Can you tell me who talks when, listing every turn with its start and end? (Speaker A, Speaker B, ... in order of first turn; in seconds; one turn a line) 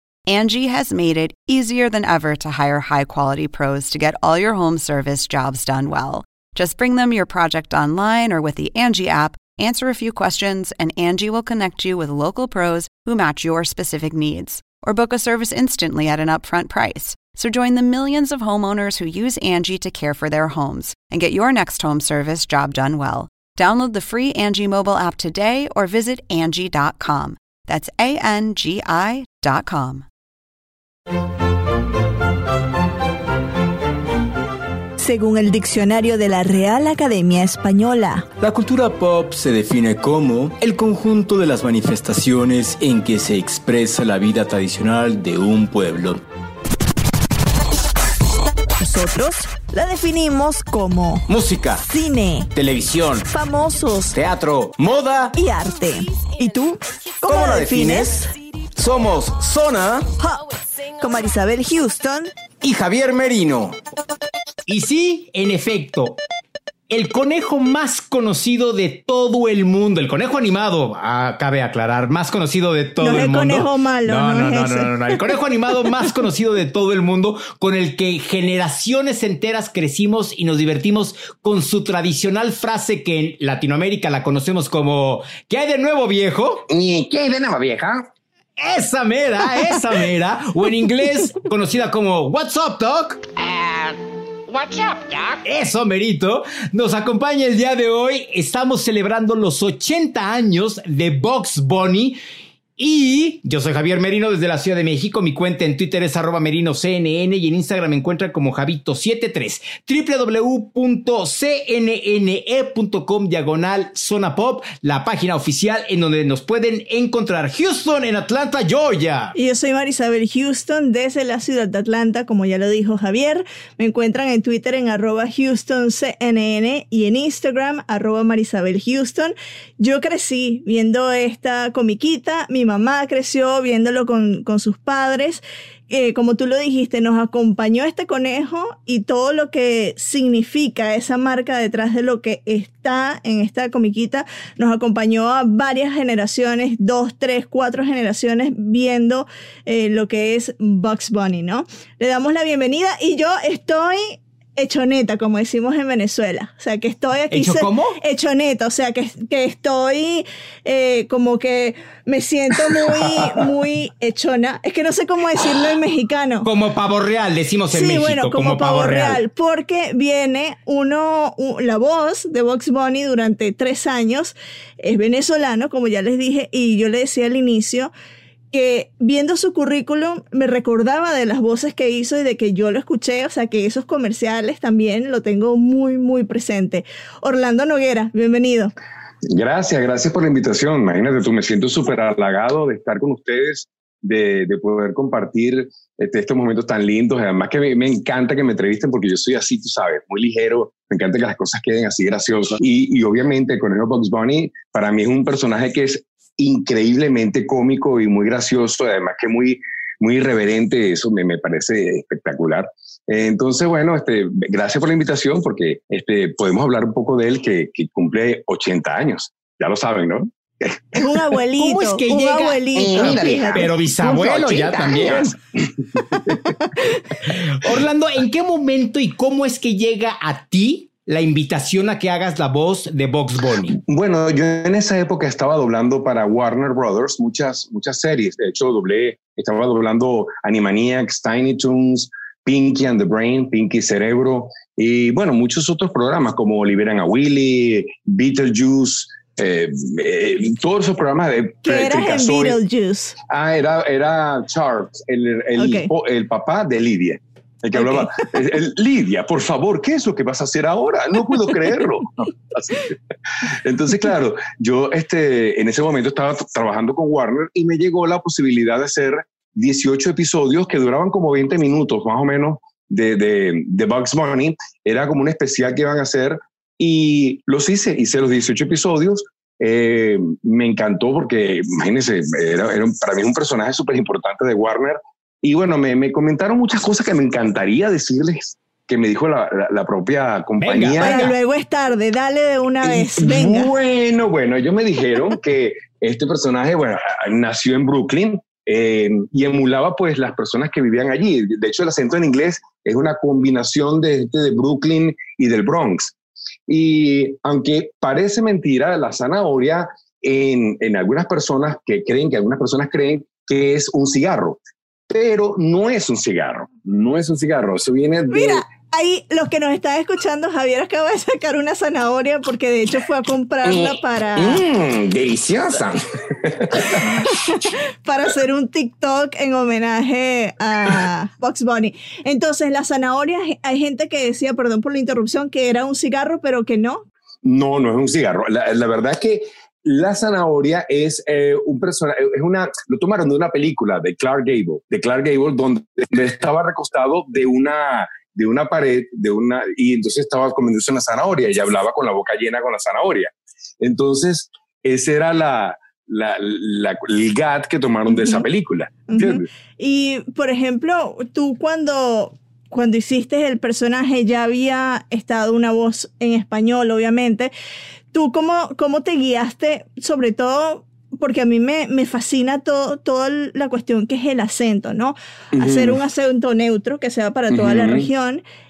Speaker A: 0.3-30.1
Speaker B: 35.0-38.3
Speaker C: 38.4-46.2
Speaker B: 48.8-51.3
Speaker C: 51.3-51.9
Speaker B: 51.9-52.5
Speaker C: 52.5-53.3
Speaker B: 53.3-54.2
Speaker C: 54.1-55.4
Speaker B: 55.3-58.3
Speaker C: 57.3-58.1
Speaker C: 58.8-60.1
Speaker B: 60.2-60.5
Speaker B: 61.0-62.3
Speaker C: 62.6-63.8
Speaker D: 64.7-66.2
Speaker D: 66.9-86.7
Speaker B: 73.0-74.9
Speaker E: 86.7-88.1
Speaker D: 88.6-93.3
Speaker E: 93.5-93.9
Speaker E: 94.5-95.4
Speaker D: 95.4-102.2
Speaker D: 102.8-119.3
Speaker B: 119.3-166.5
Speaker D: 157.3-158.0
Speaker D: 166.4-169.2
Speaker B: 167.7-177.9
Speaker B: 178.5-188.7
Speaker E: 189.3-221.0
Speaker B: 220.9-223.7
Speaker D: 221.6-225.4
Speaker E: 222.8-226.3
Speaker D: 227.2-233.8
Speaker E: 233.7-252.6
Speaker B: 251.7-253.2
Speaker E: 253.3-291.2
Speaker B: 255.6-255.9
Speaker D: 290.6-291.4
Speaker B: 291.0-293.7
Speaker E: 292.8-306.1
Speaker E: 306.7-318.6
Speaker B: 318.3-324.7
Speaker E: 323.6-327.2
Speaker B: 327.0-337.0
Speaker E: 337.4-359.5
Speaker B: 358.1-358.4
Speaker B: 359.1-367.5
Speaker B: 368.1-378.4
Speaker E: 375.5-376.0
Speaker E: 377.5-378.1